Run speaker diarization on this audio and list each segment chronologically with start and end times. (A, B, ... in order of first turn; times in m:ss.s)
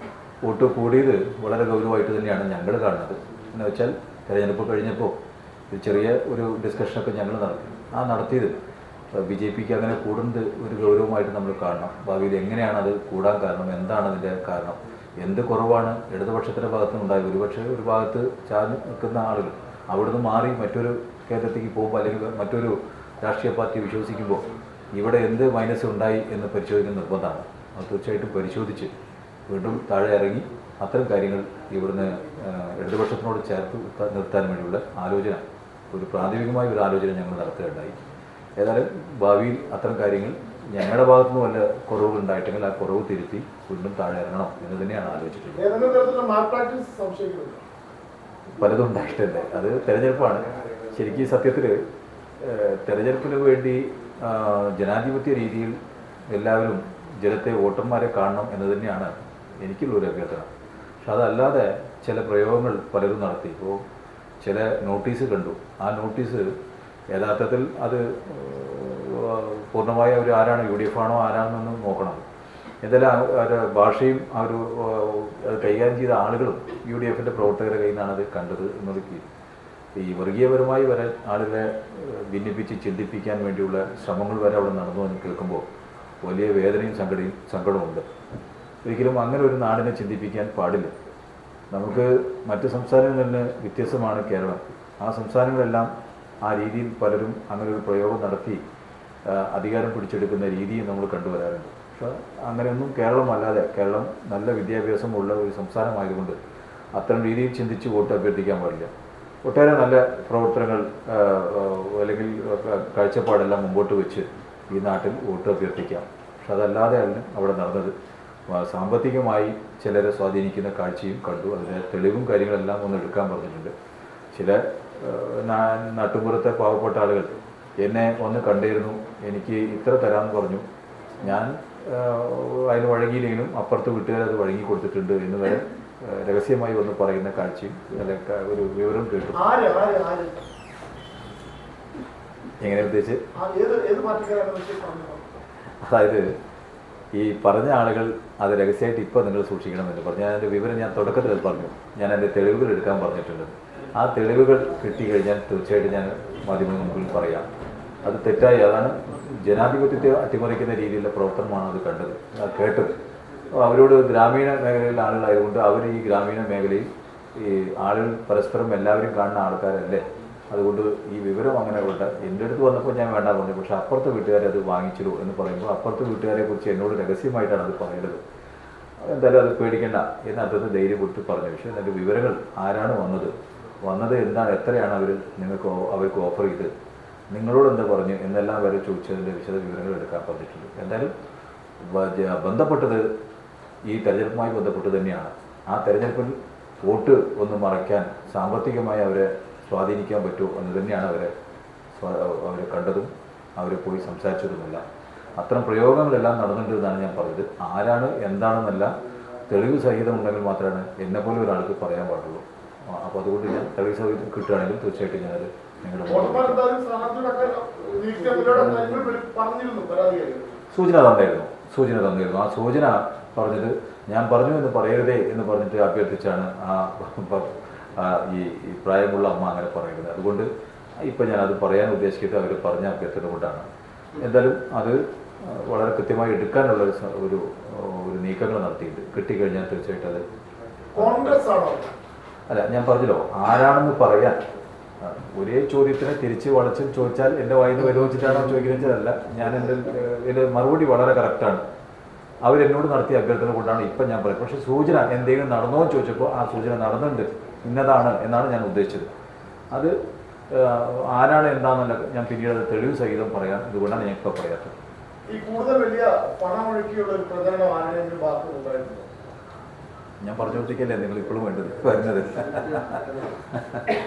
0:00.4-0:05.2 A
0:05.7-0:08.6 A
0:09.1-0:28.9 A
0:29.5-0:38.0 A
0:38.6-0:45.7 A
0:45.6-0:47.6 B
0:48.6-0:51.8 A
0:52.4-0:55.8 A
0:56.3-1:00.5 A
1:01.0-1:03.8 A
1:04.4-1:06.5 A
1:07.1-1:12.2 A
1:12.8-1:19.3 A
1:20.0-1:25.7 A
1:26.2-1:28.1 A
1:28.8-1:31.0 A
1:31.7-1:35.9 A
1:36.4-1:38.6 A
1:39.3-1:46.4 A
1:47.0-1:48.9 A
1:49.4-1:57.9 A
1:58.5-2:03.7 A
2:04.3-2:10.7 A
2:11.2-2:19.4 A
2:19.4-2:20.4 B
2:22.6-2:23.2 A
2:23.3-2:25.2 B
2:25.8-2:26.4 A
2:27.2-2:37.5 A
2:38.0-2:43.0 A
2:43.5-2:58.2 A
2:59.0-3:06.7 A
3:07.3-3:11.1 A
3:11.8-3:13.0 A
3:13.9-3:21.3 A
3:22.0-3:24.8 A
3:25.4-3:29.0 A
3:29.5-3:36.6 A
3:36.1-3:40.6 B
3:40.7-3:50.5 A
3:51.0-4:00.2 A
4:01.0-4:01.4 A
4:01.0-4:01.9 B
4:02.5-4:04.4 A
4:05.0-4:11.6 A
4:12.4-4:19.1 A
4:19.7-4:20.0 A
4:20.5-4:24.8 A
4:25.3-4:29.1 B
4:30.2-4:33.9 A